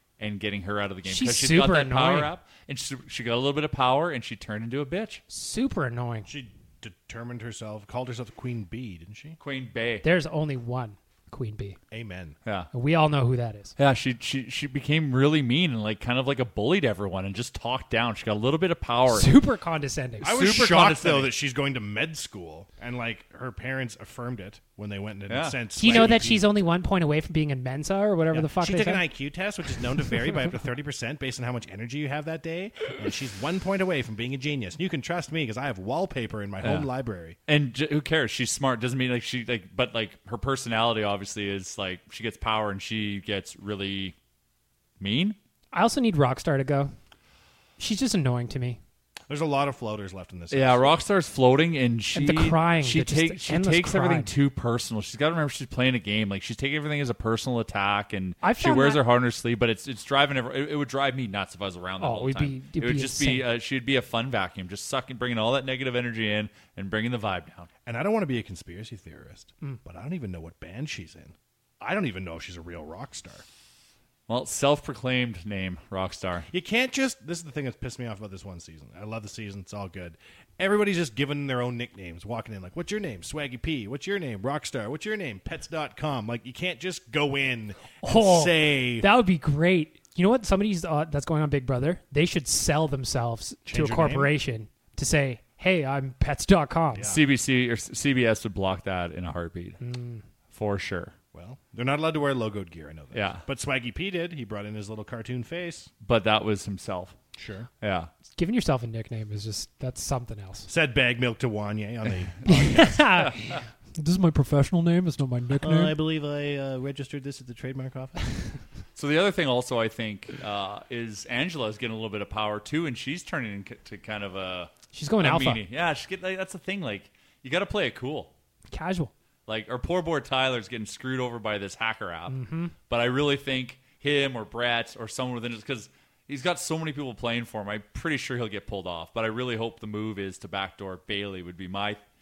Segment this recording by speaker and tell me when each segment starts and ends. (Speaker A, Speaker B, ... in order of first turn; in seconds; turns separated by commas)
Speaker A: 0.2-5.2, Speaker B: 1.1-2.3, Speaker B: 5.3-6.3, Speaker C: 6.3-9.4, Speaker A: 9.4-10.0, Speaker B: 10.0-11.8, Speaker C: 11.9-12.4, Speaker A: 12.4-12.7, Speaker B: 12.7-13.7, Speaker A: 13.8-19.3, Speaker B: 19.1-20.3, Speaker A: 20.2-21.3, Speaker C: 20.2-26.5, Speaker A: 25.3-26.2, Speaker B: 25.8-29.1, Speaker C: 28.3-37.4, Speaker A: 36.6-36.9, Speaker A: 37.5-44.1, Speaker A: 45.0-45.4, Speaker B: 45.7-46.9, Speaker B: 47.8-48.8, Speaker C: 49.3-50.9, Speaker A: 50.5-67.7, Speaker B: 52.1-54.3, Speaker B: 58.4-59.0, Speaker B: 62.0-63.5, Speaker C: 67.8-73.4, Speaker A: 74.3-76.5, Speaker C: 76.5-89.1, Speaker B: 88.0-97.0, Speaker C: 93.7-94.3, Speaker C: 96.9-97.2, Speaker A: 97.0-99.8, Speaker B: 99.8-100.2, Speaker A: 100.5-101.1, Speaker C: 101.3-105.9, Speaker A: 103.1-103.4, Speaker A: 106.0-107.2, Speaker C: 107.3-107.7, Speaker A: 107.8-108.1, Speaker B: 108.3-110.7, Speaker C: 110.7-113.0, Speaker B: 112.5-115.9, Speaker A: 113.1-113.6, Speaker C: 115.6-118.6, Speaker A: 119.0-128.3, Speaker B: 124.9-125.6, Speaker B: 128.7-129.1, Speaker A: 129.5-132.3, Speaker B: 132.3-132.7, Speaker A: 132.9-142.0